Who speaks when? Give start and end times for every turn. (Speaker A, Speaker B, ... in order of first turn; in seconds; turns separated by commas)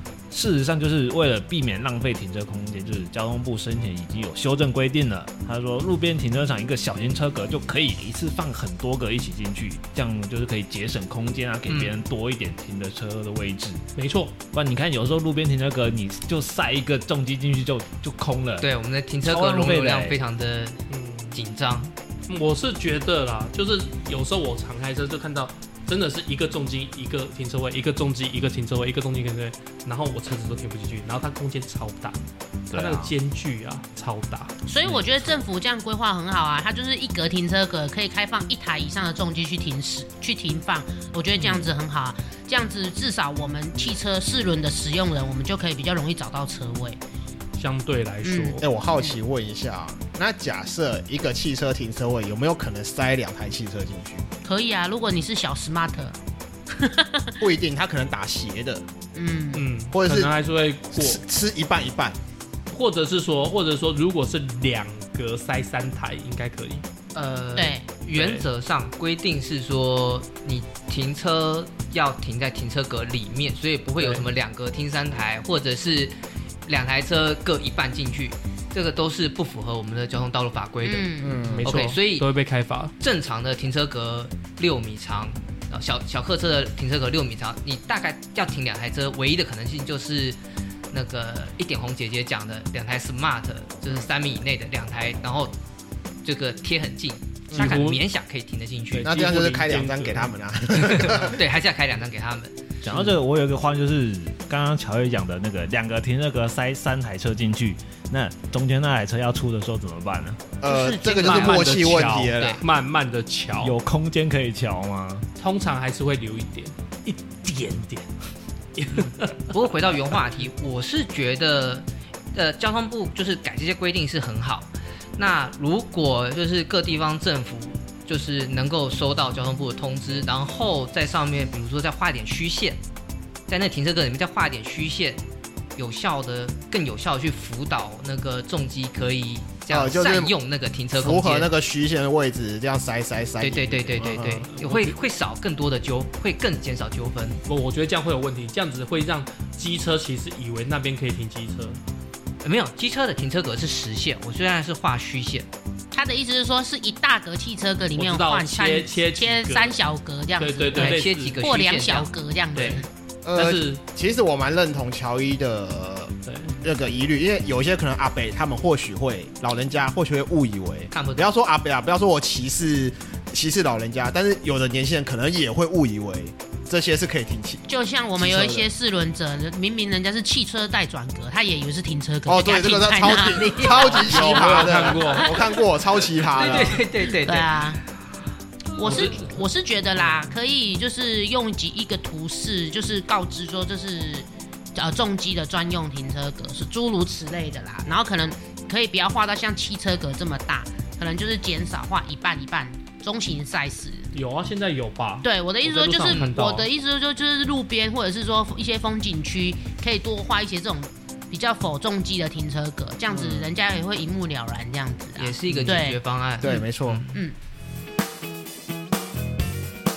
Speaker A: 0.3-13.8, Speaker B: 11.7-12.0, Speaker C: 13.9-14.3, Speaker A: 14.5-18.7, Speaker B: 18.6-20.8, Speaker A: 19.2-20.2, Speaker C: 20.9-21.4, Speaker B: 21.3-21.9, Speaker C: 22.3-32.2, Speaker A: 32.7-33.1, Speaker C: 32.7-35.2, Speaker D: 34.6-47.0, Speaker C: 47.6-48.6, Speaker D: 48.2-49.1, Speaker E: 48.6-54.2, Speaker D: 54.4-56.2, Speaker D: 56.7-57.4, Speaker E: 57.4-58.8, Speaker D: 59.1-59.7, Speaker C: 59.5-61.2, Speaker E: 59.9-60.3, Speaker E: 60.9-62.2, Speaker C: 62.7-66.8, Speaker B: 67.1-82.3, Speaker D: 67.5-67.9, Speaker C: 68.1-68.5, Speaker C: 74.0-74.2, Speaker D: 80.8-81.4, Speaker E: 81.2-81.8, Speaker C: 81.5-82.9, Speaker B: 83.0-90.4, Speaker B: 90.9-95.5, Speaker B: 96.2-99.1, Speaker E: 97.5-97.8, Speaker C: 97.5-98.0, Speaker C: 98.9-100.3, Speaker E: 99.0-101.4, Speaker B: 100.9-102.6, Speaker A: 102.8-110.4, Speaker E: 110.6-112.6, Speaker B: 110.7-112.6, Speaker C: 111.0-113.8, Speaker A: 113.6-115.3, Speaker C: 115.4-118.1, Speaker C: 118.8-119.4, Speaker B: 119.5-132.8, Speaker B: 133.5-135.2, Speaker B: 135.8-141.5, Speaker E: 139.7-140.4, Speaker E: 140.9-144.5, Speaker B: 143.4-147.4, Speaker C: 144.5-144.9, Speaker C: 147.5-151.8, Speaker B: 152.4-155.5, Speaker D: 155.9-162.9, Speaker C: 157.9-159.8, Speaker C: 160.4-161.4, Speaker B: 160.7-162.8, Speaker C: 162.6-162.8, Speaker E: 163.2-177.6, Speaker C: 163.3-163.8, Speaker C: 166.2-166.6, Speaker B: 170.9-171.3, Speaker D: 177.7-185.6, Speaker E: 178.2-178.7, Speaker E: 182.2-186.8, Speaker C: 183.8-185.5, Speaker B: 186.3-187.8, Speaker D: 187.0-187.8, Speaker D: 188.8-204.1, Speaker B: 188.8-189.1, Speaker C: 188.8-189.4, Speaker C: 204.1-206.7, Speaker D: 205.2-217.3, Speaker E: 213.1-213.5, Speaker B: 215.2-217.2, Speaker E: 216.4-217.1